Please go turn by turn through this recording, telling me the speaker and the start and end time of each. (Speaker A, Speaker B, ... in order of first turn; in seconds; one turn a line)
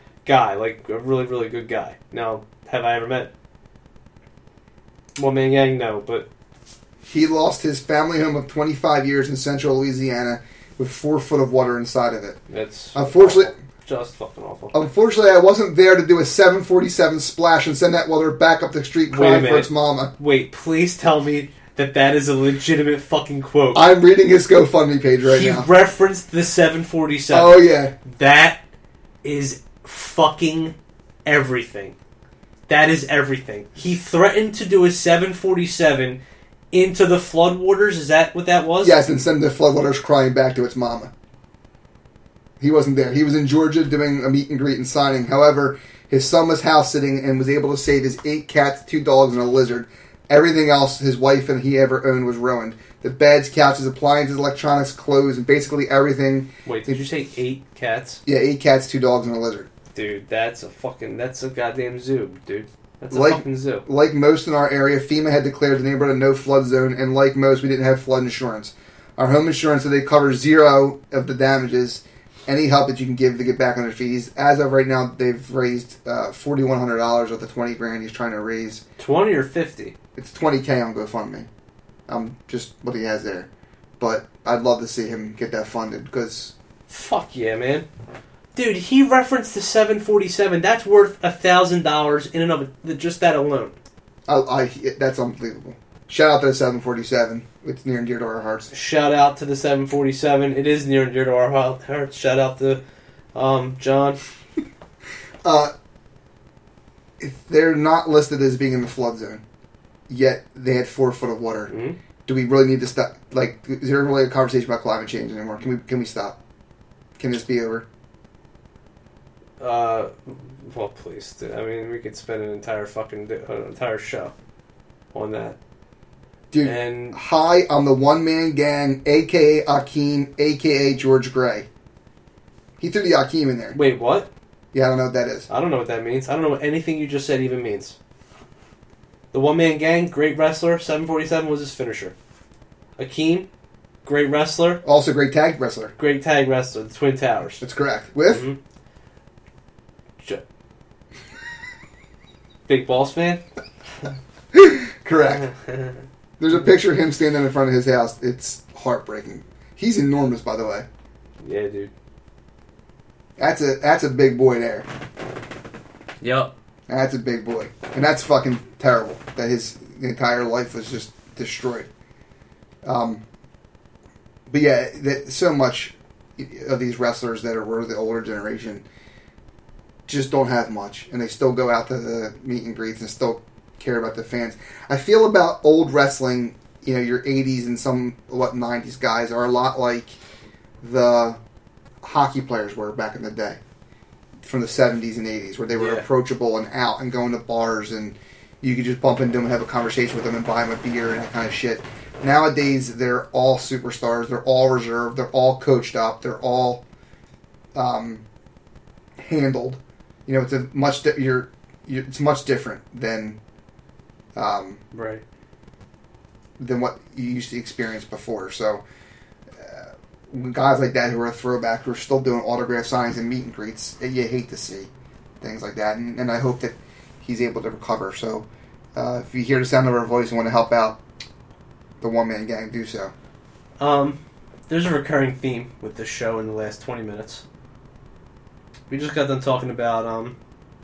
Speaker A: 0.2-3.3
Speaker A: 5.2-6.2
Speaker B: 7.1-12.4
Speaker A: 12.5-14.7
Speaker B: 12.9-13.5
Speaker B: 14.7-20.1
Speaker A: 19.1-23.8
Speaker B: 23.7-25.7
Speaker A: 25.2-28.6
Speaker B: 27.3-27.9
Speaker A: 29.2-31.9
Speaker A: 32.7-36.2
Speaker A: 36.7-39.0
Speaker B: 38.8-41.1
Speaker B: 42.6-57.0
Speaker A: 56.6-58.2
Speaker B: 58.2-59.7
Speaker A: 59.9-63.8
Speaker B: 63.1-78.8
Speaker A: 79.0-79.9
Speaker B: 80.1-81.5
Speaker B: 82.1-83.5
Speaker B: 84.0-86.5
Speaker A: 86.9-87.9
Speaker A: 88.5-93.7
Speaker B: 94.3-98.7
Speaker A: 98.7-102.8
Speaker A: 103.3-104.2
Speaker B: 105.4-105.7
Speaker B: 107.2-109.4
Speaker B: 110.1-111.7
Speaker A: 111.7-112.0
Speaker B: 112.2-116.4
Speaker B: 117.2-117.8
Speaker A: 119.6-124.3
Speaker A: 125.1-125.6
Speaker B: 126.5-131.7
Speaker A: 126.6-127.2
Speaker B: 132.8-133.8
Speaker A: 133.7-134.3
Speaker B: 134.7-135.5
Speaker A: 135.5-138.0
Speaker A: 139.3-142.1
Speaker A: 143.0-143.5
Speaker A: 144.0-144.8
Speaker B: 144.8-145.9
Speaker A: 146.0-147.6
Speaker B: 147.6-148.5
Speaker A: 148.3-148.6
Speaker A: 152.7-153.4
Speaker B: 154.5-155.5
Speaker A: 155.3-156.0
Speaker B: 156.4-160.8
Speaker A: 161.4-161.9
Speaker B: 163.4-164.8
Speaker A: 166.2-166.5
Speaker B: 166.9-171.9
Speaker B: 172.8-173.2
Speaker B: 174.5-178.8
Speaker B: 180.1-190.1
Speaker B: 190.8-191.4
Speaker B: 192.0-193.6
Speaker B: 194.4-206.8
Speaker A: 195.8-196.0
Speaker B: 207.7-208.2
Speaker B: 209.2-213.4
Speaker B: 214.3-214.8
Speaker A: 214.9-215.2
Speaker B: 216.6-218.8
Speaker B: 219.6-224.9
Speaker B: 225.4-231.0
Speaker B: 232.0-233.1
Speaker A: 233.8-237.4
Speaker A: 238.9-240.3